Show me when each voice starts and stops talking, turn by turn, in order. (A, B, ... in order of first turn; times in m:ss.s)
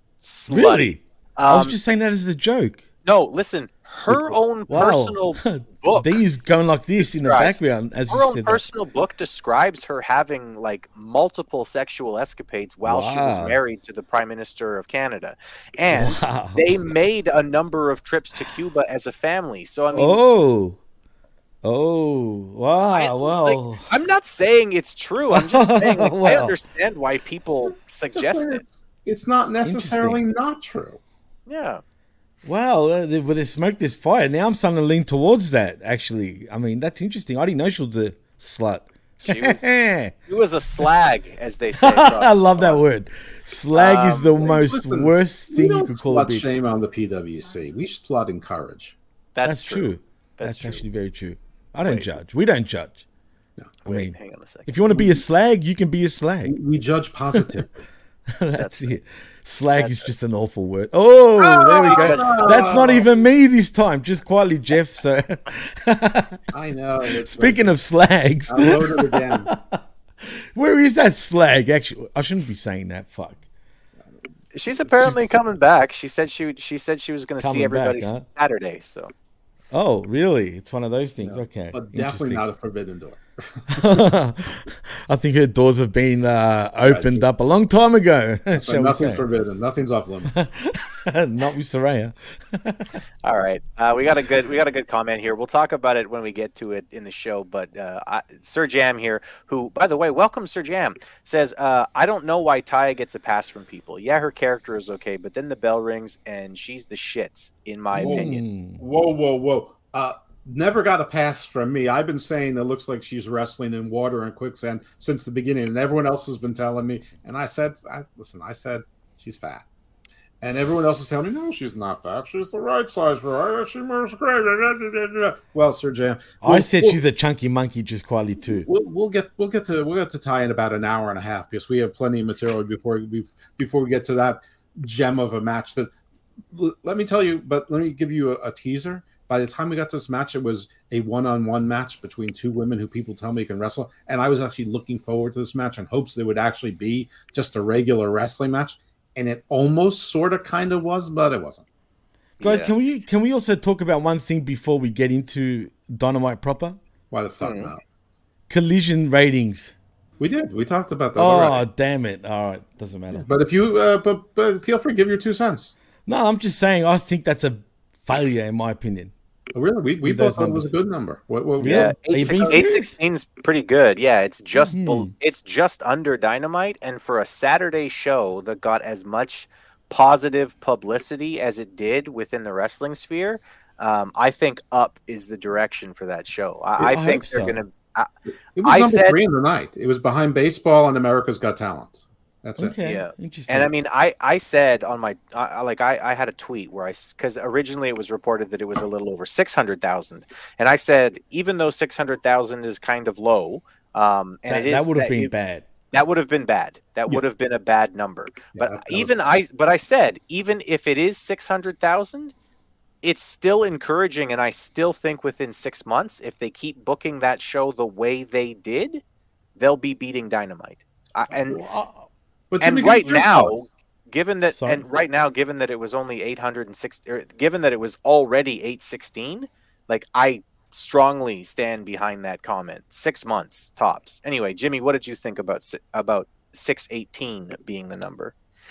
0:00.2-0:01.8 A
0:00.5-0:02.8 B
0:03.0-0:06.2 A
0:04.1-0:08.6 B
0:07.0-0:20.2 A
0:12.8-0:13.6 B
0:15.9-0:16.7 B
0:19.9-0:20.8 B
0:21.6-0:23.9 B
0:22.9-0:28.6 A
0:25.3-0:26.5 B
0:28.1-0:31.0 C
0:29.6-0:30.2 B
0:31.5-0:31.8 A
0:32.4-0:40.1 B
0:39.2-0:39.6 A
0:40.3-0:42.8 A
0:41.8-0:46.5 B
0:43.7-0:44.5 A
0:44.4-0:49.0 C
0:49.3-0:50.8 A
0:49.4-0:53.0 B
0:51.8-0:52.1 A
0:53.8-0:54.7 A
0:53.8-0:56.5 B
0:56.4-0:57.8 C
0:58.4-1:06.4 B
0:58.6-0:59.0 A
0:59.8-1:00.1 A
1:01.4-1:03.2 C
1:01.8-1:02.6 A
1:06.5-1:07.7 C
1:07.1-1:13.4 B
1:08.5-1:09.5 C
1:14.5-1:19.1 A
1:17.4-1:18.2 B
1:19.7-1:22.4 B
1:21.2-1:24.0 C
1:23.7-1:29.2 B
1:26.8-1:27.2 C
1:28.6-1:30.4 C
1:30.3-1:32.9 B
1:33.2-1:48.4 A
1:47.9-1:48.8 B
1:47.9-1:48.3 C
1:48.8-1:59.6 C
2:00.4-2:07.0 C
2:06.4-2:08.7 B
2:08.5-2:15.9 C
2:16.5-2:31.6 C
2:32.4-2:32.7 A
2:32.4-2:36.8 B
2:37.1-2:37.8 C
2:37.4-2:37.7 A
2:38.5-2:39.7 B
2:40.2-2:41.6 C
2:41.2-2:43.3 B
2:43.1-2:45.7 C
2:46.0-2:49.1 B
2:49.5-2:52.6 C
2:50.0-2:50.7 B
2:51.6-2:52.9 B
2:51.6-3:08.1 A
2:54.5-2:55.1 B
3:06.8-3:07.6 B
3:08.5-3:12.7 C
3:08.6-3:09.2 A
3:12.6-3:13.7 B
3:12.8-3:25.3 A
3:24.5-3:25.6 B
3:25.9-3:32.3 A
3:28.5-3:29.1 C
3:33.0-3:39.0 A
3:39.6-3:41.6 A
3:41.5-3:42.1 B
3:42.5-3:43.6 C
3:42.6-3:58.3 A
3:44.5-3:44.8 B